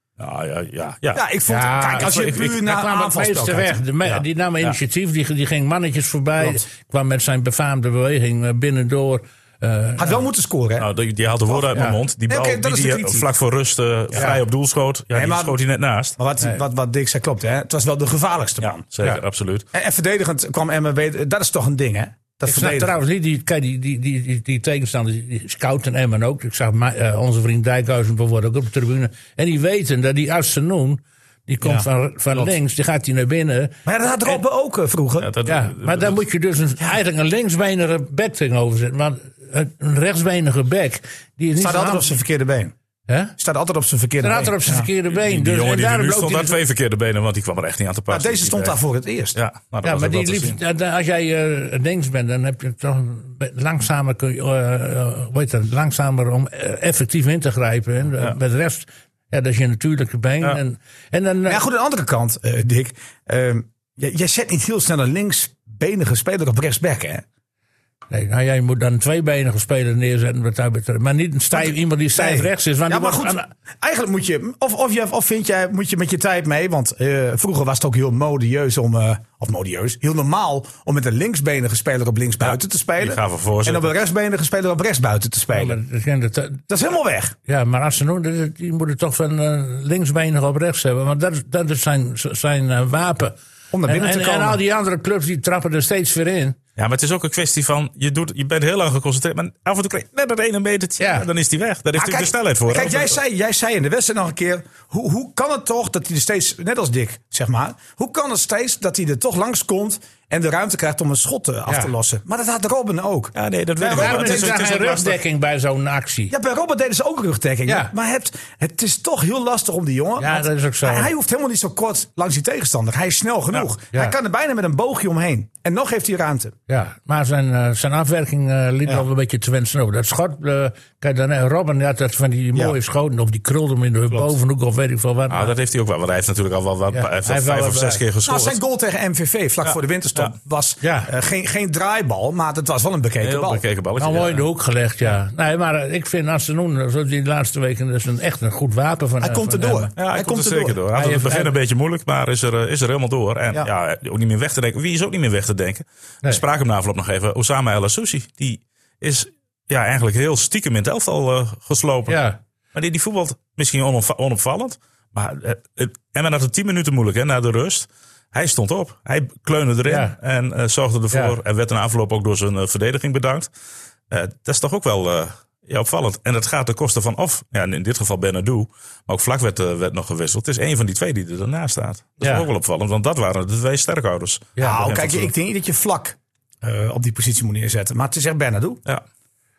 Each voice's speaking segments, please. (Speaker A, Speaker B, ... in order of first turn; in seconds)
Speaker A: 0.2-1.2, 10.8-16.2, 18.8-19.6, 35.2-36.2, 45.1-48.8, 49.4-50.6, 83.0-84.0, 96.8-103.2, 113.3-115.2, 135.3-138.6, 139.7-140.3, 143.2-144.5, 150.0-162.2, 162.7-173.5, 174.1-185.3
Speaker B: 1.1-4.2, 10.0-10.9, 11.5-11.8, 12.3-13.3, 14.1-14.4, 15.1-15.6, 16.2-18.9, 19.7-22.9, 33.9-35.3, 41.6-42.7, 43.4-44.9, 48.1-49.4, 61.5-67.2, 71.5-85.8, 86.7-87.4, 93.7-94.6, 102.0-114.6, 116.3-126.5, 138.2-143.6, 149.2-150.8, 184.6-188.8
Speaker C: 1.5-10.2, 22.4-33.8, 35.5-42.1, 43.1-43.3, 44.2-46.6, 49.8-61.6, 68.1-73.5, 85.5-86.6, 87.5-96.6, 101.0-101.3, 113.9-116.3, 117.7-117.9, 120.2-121.1, 126.7-135.5, 136.9-138.0, 140.8-141.1, 144.0-149.9, 150.9-151.6, 162.1-162.4, 169.9-170.2, 171.1-171.4, 182.2-182.5, 184.6-184.8